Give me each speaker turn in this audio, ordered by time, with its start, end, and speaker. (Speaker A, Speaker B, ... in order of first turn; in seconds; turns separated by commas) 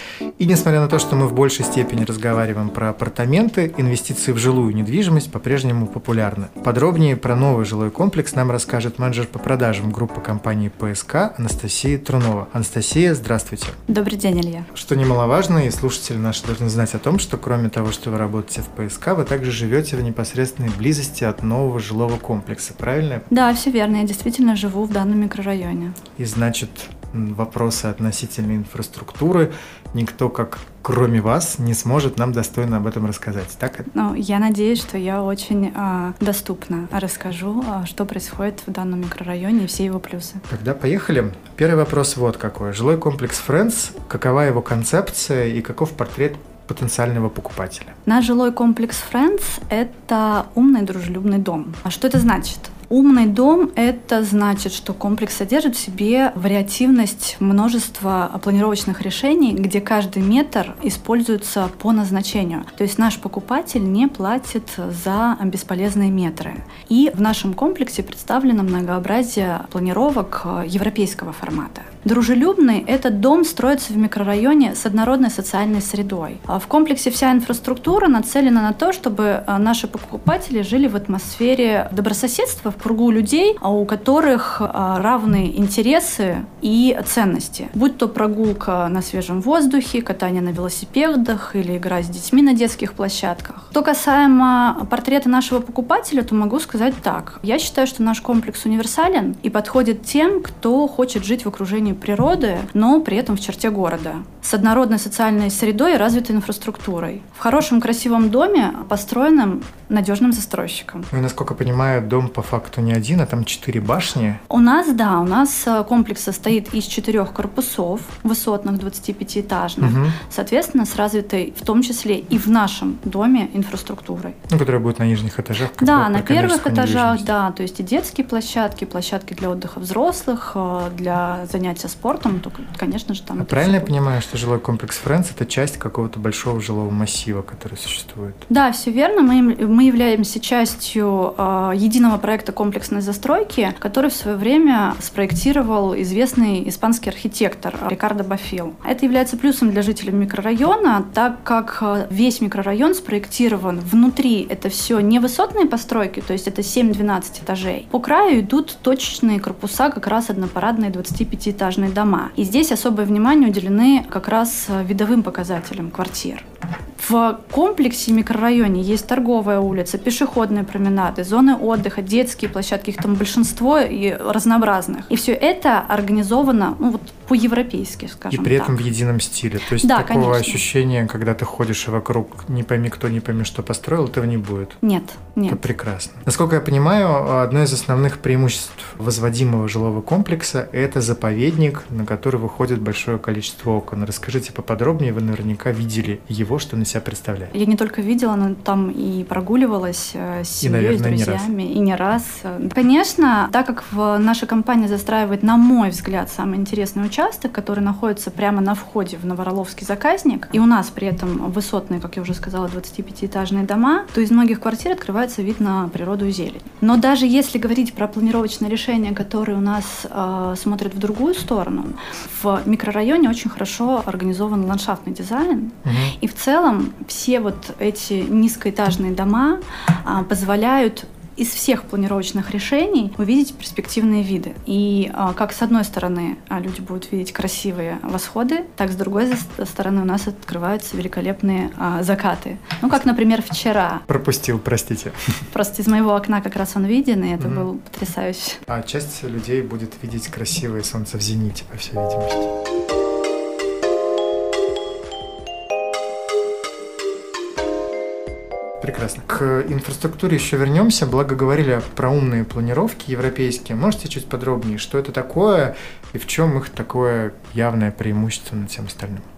Speaker A: 0.4-13.8, Speaker B: 13.9-14.7, Speaker A: 14.7-23.2, Speaker B: 23.3-26.0, Speaker A: 26.2-33.9, Speaker B: 33.9-40.4, Speaker A: 40.5-47.9, Speaker B: 48.1-111.1, Speaker A: 111.1-114.4, Speaker B: 114.5-124.4, Speaker A: 119.8-120.2, Speaker A: 124.5-127.3, Speaker B: 125.8-133.9, Speaker A: 133.4-138.4, Speaker B: 138.5-166.4, Speaker B: 167.0-178.8, Speaker A: 178.3-184.8, Speaker B: 179.8-180.6, Speaker B: 184.8-185.6, Speaker A: 185.5-197.5, Speaker B: 197.5-244.0, Speaker A: 200.6-201.5, Speaker A: 225.8-226.1, Speaker A: 244.1-245.4, Speaker B: 245.5-248.6, Speaker A: 247.4-247.7, Speaker A: 248.7-252.5, Speaker A: 258.8-269.2